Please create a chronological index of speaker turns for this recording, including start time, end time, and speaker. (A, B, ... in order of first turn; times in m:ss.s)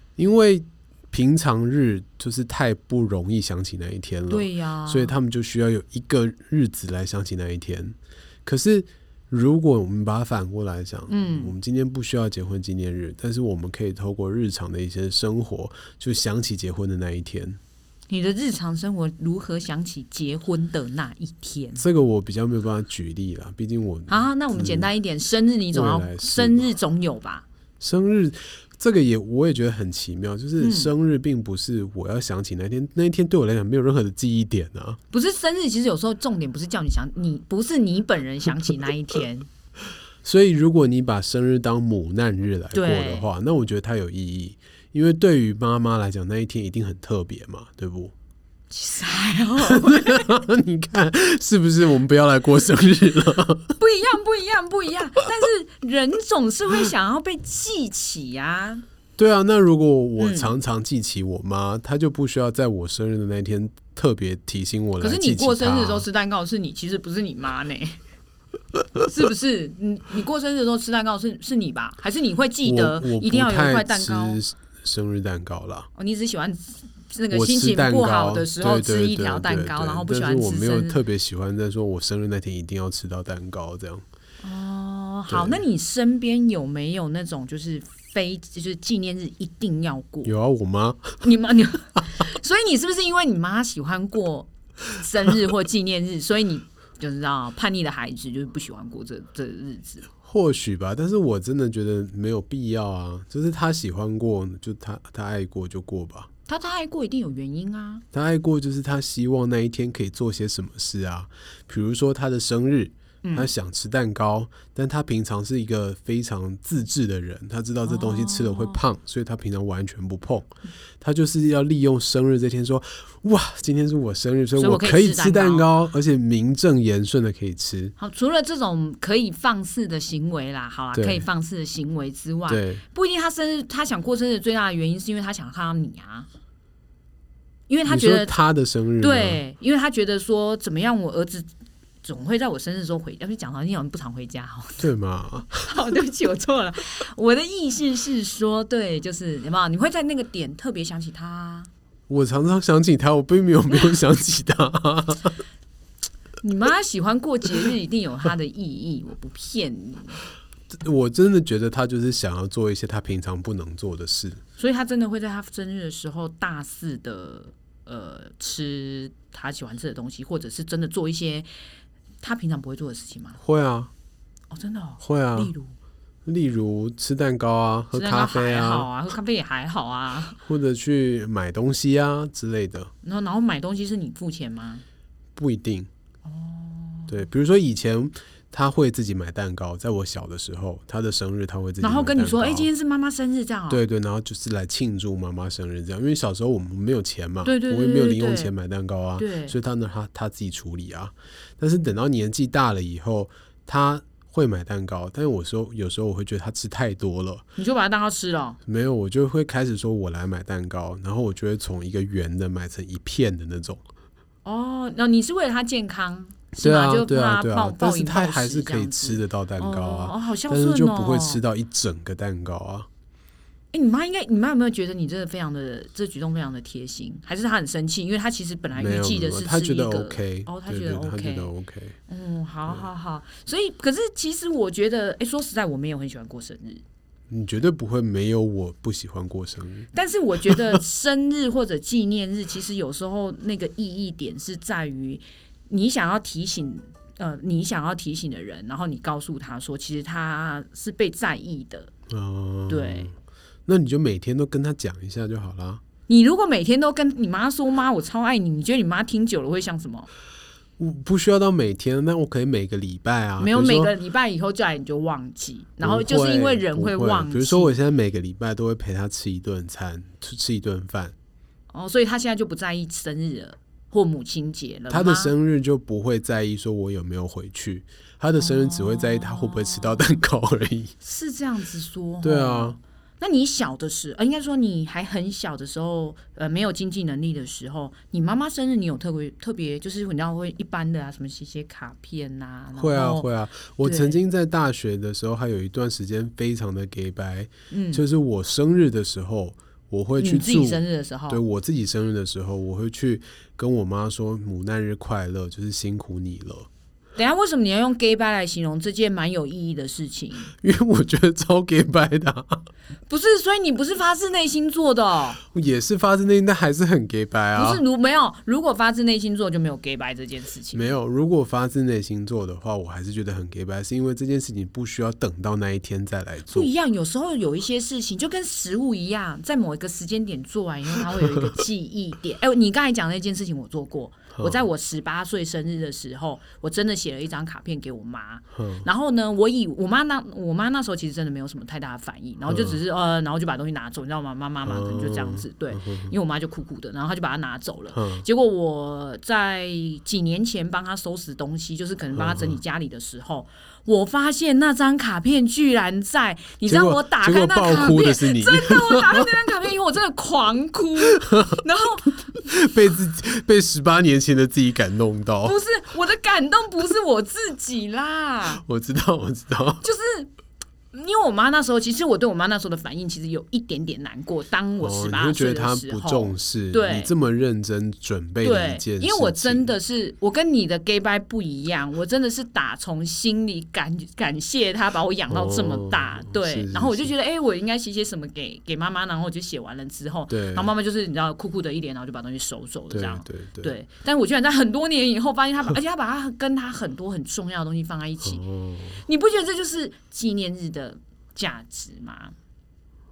0:00.2-0:17.6 A
0:04.3-0:05.2 B
0:11.1-0:11.5 B
0:18.1-0:21.8 B
0:21.8-0:24.9 A
0:24.1-0:27.4 B
0:25.7-0:26.7 A
0:27.8-0:35.0 A
0:30.6-0:30.9 B
0:35.1-0:39.5 B
0:40.2-0:48.1 A
0:42.7-0:43.3 B
0:48.7-0:50.3 B
0:49.7-0:53.7 A
0:53.8-0:58.8 B
0:59.2-1:06.1 A
1:00.2-1:00.5 B
1:05.0-1:08.0 B
1:09.0-1:14.4 B
1:12.6-1:15.9 A
1:16.0-1:21.0 B
1:17.3-1:24.0 A
1:24.4-1:30.3 B
1:25.3-1:25.6 A
1:30.2-1:31.3 A
1:31.2-1:40.1 B
1:40.2-1:46.3 A
1:46.5-1:48.0 B
1:48.1-2:00.5 A
1:53.2-1:53.5 B
1:57.8-1:58.8 B
2:01.0-2:07.9 A
2:04.6-2:05.7 B
2:08.0-2:16.3 B
2:11.0-2:11.3 A
2:12.5-2:12.8 A
2:17.7-2:18.4 B
2:17.9-2:19.4 A
2:19.0-2:21.5 B
2:22.0-2:24.9 B
2:24.8-2:25.7 A
2:25.6-2:31.7 B
2:32.1-2:35.4 A
2:36.4-2:40.2 B
2:40.7-2:44.4 A
2:44.6-2:51.5 B
2:52.2-2:53.4 B
2:53.4-2:53.9 A
2:54.5-2:55.7 B
2:55.0-2:55.5 A
2:56.3-2:58.9 A
2:57.9-3:00.4 B
3:00.4-3:02.9 A
3:03.0-3:04.8 B
3:05.4-3:05.9 A
3:06.2-3:07.1 B
3:07.1-3:12.7 A
3:11.8-3:13.8 B
3:13.7-3:27.4 A
3:17.4-3:18.5 B
3:19.2-3:19.6 B
3:27.6-3:28.6 B
3:28.7-3:33.8 A
3:34.4-3:41.4 B
3:36.6-3:42.9 A
3:43.7-3:51.5 B
3:48.8-3:52.0 A
3:52.1-3:56.8 B
3:57.3-4:00.8 A
3:59.9-4:11.9 B
4:12.1-4:15.8 A
4:12.7-4:13.1 B
4:16.1-4:20.1 B
4:20.8-4:23.9 A
4:23.4-4:27.8 B
4:25.8-4:31.2 A
4:31.7-4:35.3 B
4:34.9-4:40.9 A
4:38.4-4:40.0 B
4:41.0-4:54.2 B
4:42.2-4:42.8 A
4:52.8-5:06.7 A
4:57.7-4:58.0 B
5:00.2-5:01.4 B
5:07.2-5:10.6 B
5:10.6-5:12.6 A
5:13.1-5:15.4 B
5:15.5-5:17.8 A
5:17.6-5:20.9 B
5:20.7-5:26.7 A
5:26.5-6:02.4 B
5:31.1-5:31.6 A
5:34.4-5:34.6 A
5:38.6-5:38.9 A
5:42.5-5:42.8 A
5:44.6-5:46.2 A
5:47.9-5:48.3 A
5:52.1-5:52.6 A
5:56.6-5:59.3 A
6:01.2-6:01.6 A
6:02.4-6:05.6 A
6:05.4-6:08.6 B
6:08.6-6:09.8 A
6:09.8-6:10.3 B
6:10.9-6:17.1 B
6:14.8-6:19.7 A
6:18.4-6:38.4 B
6:25.3-6:27.1 A
6:30.3-6:30.7 A
6:32.9-6:33.8 A
6:38.2-6:39.0 A
6:39.0-6:42.3 B